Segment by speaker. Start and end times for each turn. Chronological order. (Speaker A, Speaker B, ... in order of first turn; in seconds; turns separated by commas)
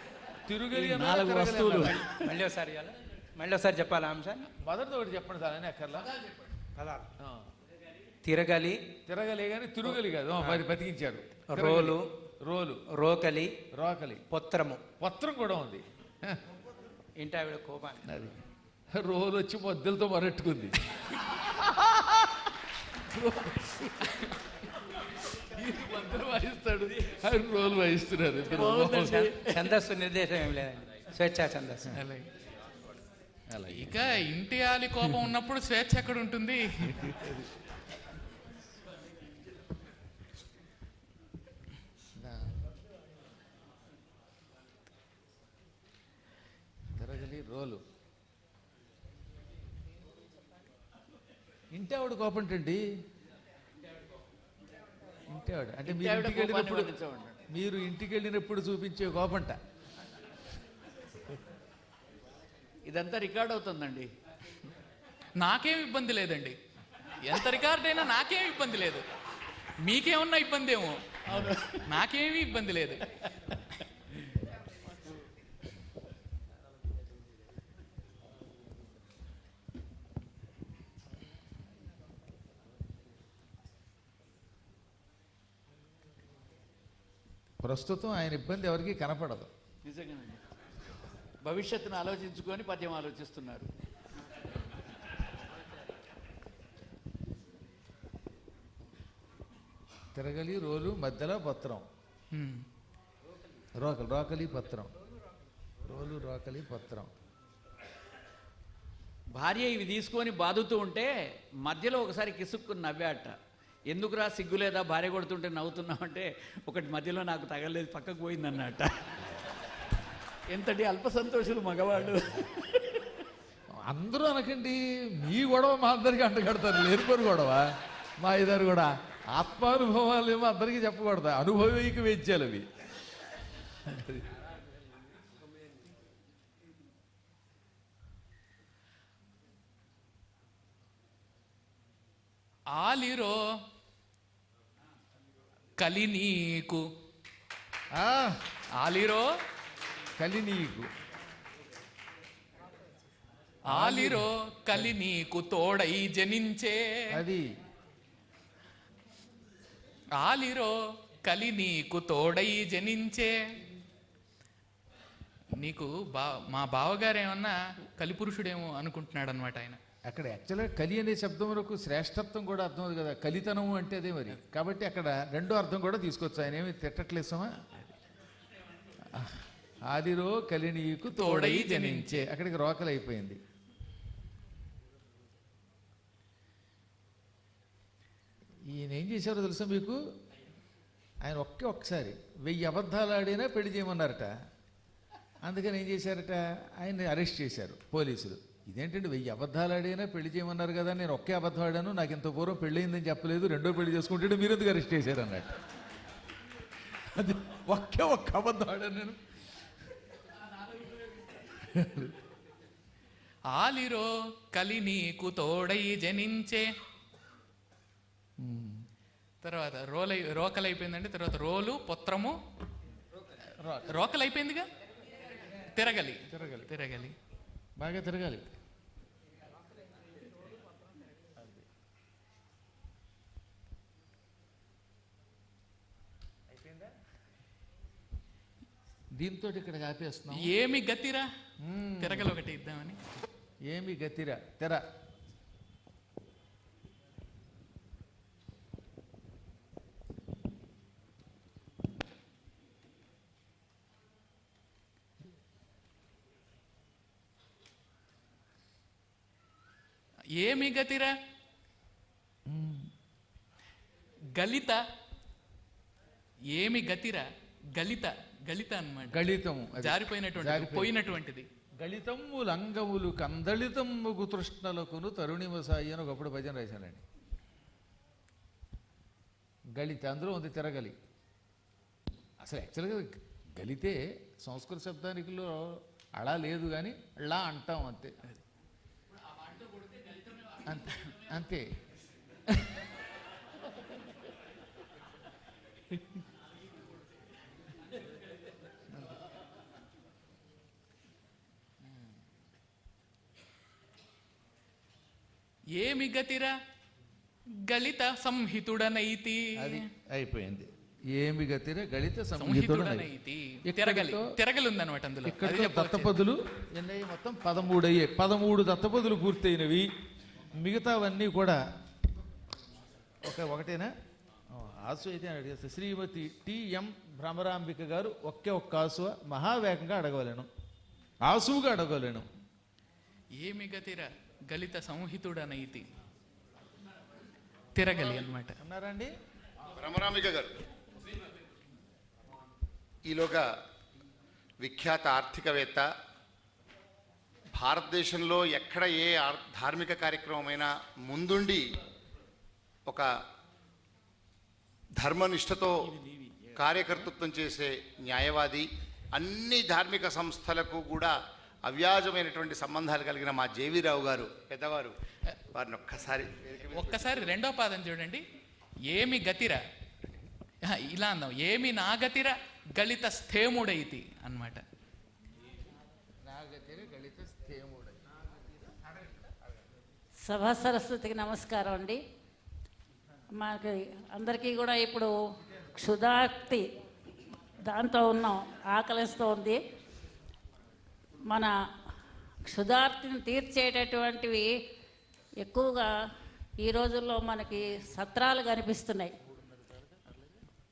Speaker A: 0.5-2.1, Speaker B: 0.8-2.1, Speaker C: 2.1-4.5, Speaker A: 4.6-6.1, Speaker C: 6.8-7.1, Speaker A: 7.2-7.5, Speaker C: 8.2-8.8, Speaker A: 9.1-12.8, Speaker C: 9.9-10.6, Speaker C: 11.5-12.1, Speaker C: 12.9-13.5, Speaker A: 13.7-14.2, Speaker C: 14.3-14.8, Speaker A: 15.0-16.4, Speaker C: 17.2-18.0, Speaker A: 18.1-18.4, Speaker A: 18.9-22.5, Speaker A: 23.0-24.1, Speaker A: 25.5-29.3, Speaker C: 28.5-31.9, Speaker D: 31.9-32.2, Speaker A: 33.5-34.3, Speaker D: 33.8-37.0, Speaker A: 35.0-35.3, Speaker A: 36.9-37.5, Speaker A: 42.2-42.6, Speaker A: 46.9-47.8, Speaker A: 51.7-52.8, Speaker A: 55.3-56.9, Speaker B: 55.8-57.4, Speaker A: 57.5-59.6, Speaker B: 62.9-64.1, Speaker D: 65.4-66.6, Speaker D: 67.2-69.0, Speaker D: 69.8-71.0, Speaker B: 71.3-71.8, Speaker D: 71.9-73.0, Speaker A: 87.6-89.5, Speaker B: 89.8-90.4, Speaker B: 91.4-93.7, Speaker A: 100.1-101.8, Speaker D: 102.3-102.7, Speaker A: 103.8-104.9, Speaker A: 105.8-107.1, Speaker B: 109.3-113.3, Speaker B: 113.9-118.9, Speaker B: 120.5-123.1, Speaker A: 123.8-132.7, Speaker A: 133.8-134.2, Speaker D: 142.7-143.4, Speaker D: 145.8-146.8, Speaker A: 147.9-148.4, Speaker D: 148.8-149.3, Speaker A: 150.2-150.9, Speaker D: 153.7-157.1, Speaker A: 153.7-154.9, Speaker A: 157.1-157.5, Speaker D: 160.2-163.4, Speaker D: 165.6-169.8, Speaker A: 170.1-177.9, Speaker A: 179.1-183.4, Speaker D: 181.1-182.3, Speaker A: 188.7-190.0, Speaker A: 191.2-194.3, Speaker A: 195.4-205.5, Speaker A: 206.8-209.2, Speaker A: 211.3-212.2, Speaker D: 213.5-216.7, Speaker A: 218.4-218.8, Speaker D: 219.4-222.4, Speaker A: 223.6-223.9, Speaker D: 223.9-224.7, Speaker D: 225.7-227.2, Speaker A: 226.3-226.7, Speaker A: 227.8-228.5, Speaker A: 231.4-231.7, Speaker A: 236.5-236.9, Speaker A: 239.2-240.5, Speaker D: 240.3-241.3, Speaker A: 241.6-242.4, Speaker D: 242.0-243.0, Speaker A: 243.7-244.8, Speaker D: 260.4-261.1, Speaker A: 262.5-262.9, Speaker D: 264.4-264.8, Speaker D: 266.5-271.4, Speaker A: 269.1-271.0, Speaker A: 271.8-277.0, Speaker A: 279.8-280.9, Speaker A: 282.4-288.2, Speaker A: 290.6-291.7, Speaker D: 305.8-306.6, Speaker D: 307.6-309.8, Speaker A: 309.6-313.1, Speaker D: 312.4-316.1, Speaker A: 313.6-314.3, Speaker A: 315.2-319.9, Speaker A: 320.6-321.6, Speaker A: 323.2-323.9, Speaker A: 324.5-330.5, Speaker A: 331.3-332.3, Speaker D: 333.3-335.8, Speaker D: 337.8-338.6, Speaker A: 338.6-339.1, Speaker E: 339.8-340.5, Speaker E: 343.1-343.5, Speaker E: 344.6-345.9, Speaker E: 347.5-351.6, Speaker E: 354.9-355.9, Speaker B: 355.9-357.1, Speaker E: 356.6-364.9, Speaker E: 365.5-367.3, Speaker D: 366.7-368.2, Speaker D: 368.9-369.6, Speaker D: 370.7-374.6, Speaker A: 376.2-378.2, Speaker F: 380.2-382.0, Speaker F: 383.3-385.1, Speaker F: 385.8-386.6, Speaker F: 387.7-389.6, Speaker F: 392.5-394.5, Speaker F: 395.4-395.9, Speaker F: 396.6-399.1, Speaker A: 399.5-400.1